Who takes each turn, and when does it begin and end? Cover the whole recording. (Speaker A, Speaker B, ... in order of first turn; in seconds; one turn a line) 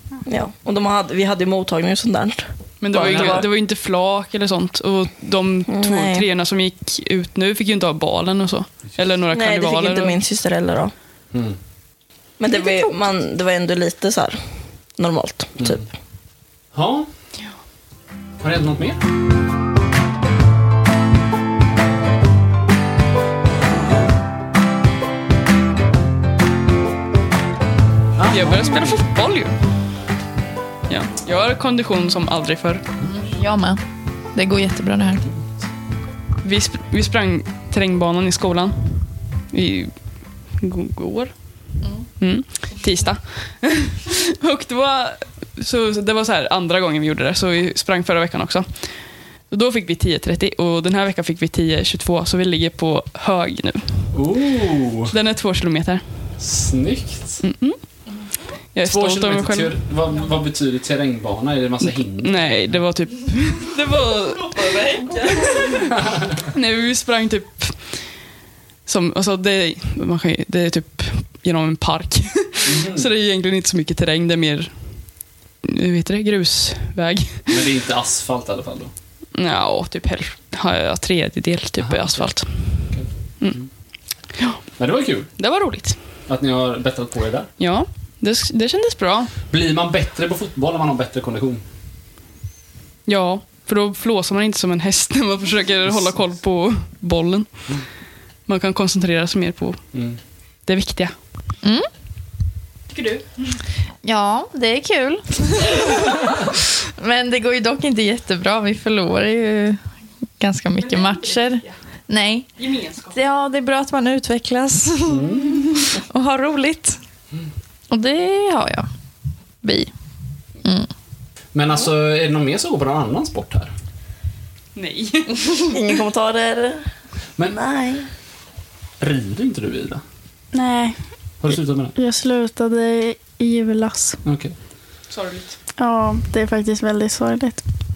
Speaker A: 0.2-3.5
Speaker B: 2.8-10.2
Speaker C: 2.9-3.5
Speaker A: 5.7-6.3
Speaker A: 9.3-10.9
Speaker C: 11.3-11.6
Speaker A: 12.4-14.4
Speaker A: 15.0-15.8
Speaker C: 15.6-15.8
Speaker C: 16.7-17.1
Speaker C: 18.4-19.0
Speaker C: 28.1-29.0
Speaker B: 28.3-29.6
Speaker B: 30.9-32.8
Speaker C: 33.0-33.3
Speaker D: 33.1-33.8
Speaker D: 34.3-35.2
Speaker B: 36.4-39.9
Speaker B: 40.5-54.2
Speaker C: 54.1-55.1
Speaker B: 55.1-56.3
Speaker C: 56.4-57.4
Speaker B: 57.4-57.8
Speaker B: 58.7-59.8
Speaker C: 58.8-62.8
Speaker B: 62.2-65.9
Speaker B: 66.5-68.2
Speaker B: 68.8-75.0
Speaker C: 72.6-73.1
Speaker B: 75.6-77.6
Speaker C: 77.5-78.9
Speaker B: 79.3-82.8
Speaker C: 81.8-83.7
Speaker B: 84.4-84.7
Speaker C: 84.8-85.3
Speaker B: 85.4-86.0
Speaker C: 86.3-87.5
Speaker B: 87.6-89.3
Speaker C: 89.5-91.6
Speaker B: 93.0-97.7
Speaker C: 95.8-96.3
Speaker B: 98.5-99.8
Speaker C: 99.9-100.2
Speaker B: 100.6-101.1
Speaker D: 101.6-101.9
Speaker B: 102.9-103.4
Speaker D: 104.0-106.4
Speaker D: 107.0-109.8
Speaker D: 110.4-112.5
Speaker B: 110.8-111.8
Speaker B: 112.6-113.2
Speaker D: 113.1-117.0
Speaker C: 115.0-115.7
Speaker D: 117.9-118.9
Speaker D: 119.6-119.9
Speaker D: 120.6-120.9
Speaker C: 121.5-123.7
Speaker B: 124.7-125.8
Speaker A: 125.6-126.8
Speaker A: 127.5-128.1
Speaker C: 129.0-130.0
Speaker E: 130.5-131.0
Speaker C: 131.4-131.9
Speaker E: 131.9-134.2
Speaker C: 134.2-134.5
Speaker B: 135.1-135.6
Speaker E: 135.8-137.6